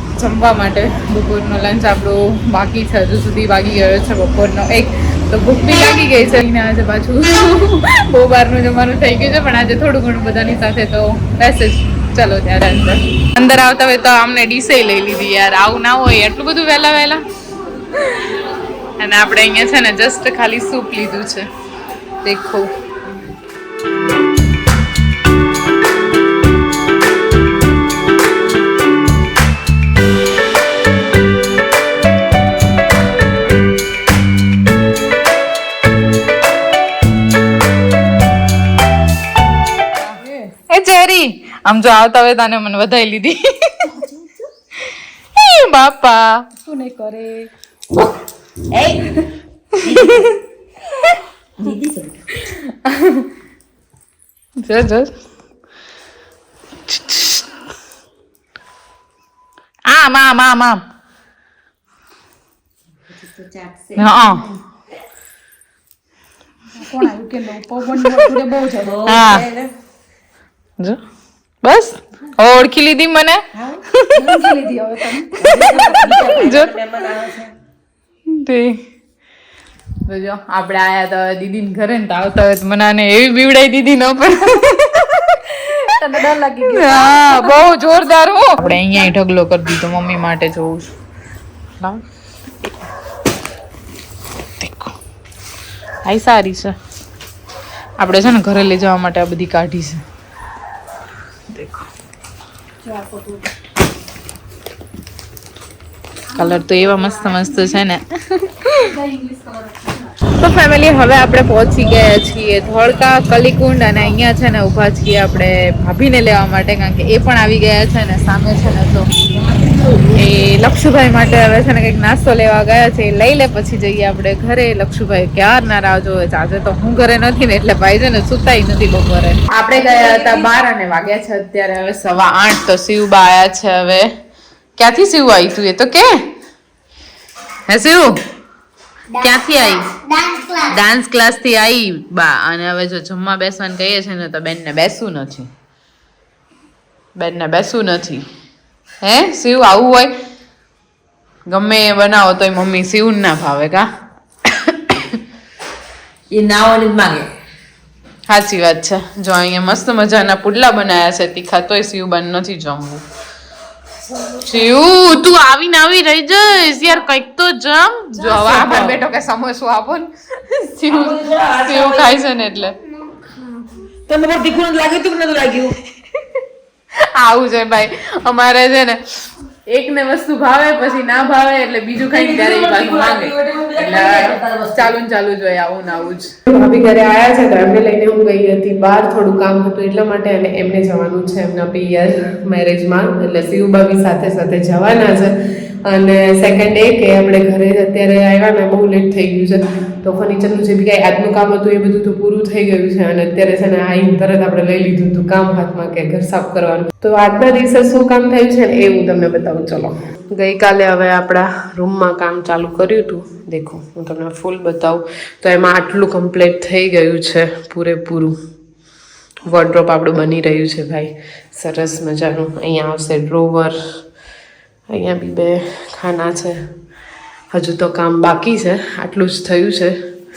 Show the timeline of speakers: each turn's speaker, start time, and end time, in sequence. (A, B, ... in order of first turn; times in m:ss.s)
0:00.1-0:17.2 A
0:17.9-0:18.2 A
0:19.0-0:21.4 A
0:22.2-0:22.7 A
0:40.0-0:40.5 B
0:40.7-0:43.9 A
0:43.9-0:44.3 C
0:45.4-0:46.4 A
0:46.6-0:47.5 B
0:48.7-0:49.2 C
0:49.8-0:50.3 C
0:49.9-0:50.3 A
0:51.6-0:52.2 C
0:52.5-0:53.3 A
0:54.6-0:55.1 A
0:56.9-0:57.4 A
0:59.9-1:00.8 A
1:03.1-1:04.5 C
1:04.0-1:04.4 A
1:06.8-1:09.1 B
1:08.0-1:08.3 A
1:08.8-1:09.7 C
1:09.0-1:09.4 A
1:11.6-1:14.4 A
1:13.5-1:13.8 C
1:14.1-1:16.6 B
1:15.4-1:16.7 A
1:15.4-1:17.5 C
1:18.3-1:18.8 A
1:20.0-1:25.8 A
1:25.8-1:27.9 B
1:26.6-1:30.9 A
1:28.8-1:29.1 B
1:34.6-1:34.9 A
1:36.0-1:36.7 A
1:38.0-1:40.0 A
1:41.5-1:41.8 A
1:42.8-1:43.5 B
1:46.3-1:48.9 A
1:46.6-1:47.6 B
1:48.7-1:50.1 B
1:50.3-1:59.1 A
1:59.5-2:00.0 C
2:00.1-2:14.1 A
2:14.8-2:16.1 A
2:17.7-2:18.2 A
2:19.1-2:25.5 A
2:27.2-2:28.2 A
2:29.0-2:30.1 A
2:31.5-2:33.8 A
2:34.5-2:35.2 A
2:36.3-2:37.3 C
2:38.3-2:43.0 A
2:44.4-2:52.8 A
2:48.2-2:49.0 C
2:50.9-2:52.2 C
2:54.1-2:55.8 C
2:57.0-2:59.0 A
2:59.7-3:06.3 A
3:02.1-3:04.9 C
3:06.5-3:38.3 D
3:39.5-3:43.8 D
3:44.9-3:46.6 D
3:47.5-3:50.0 D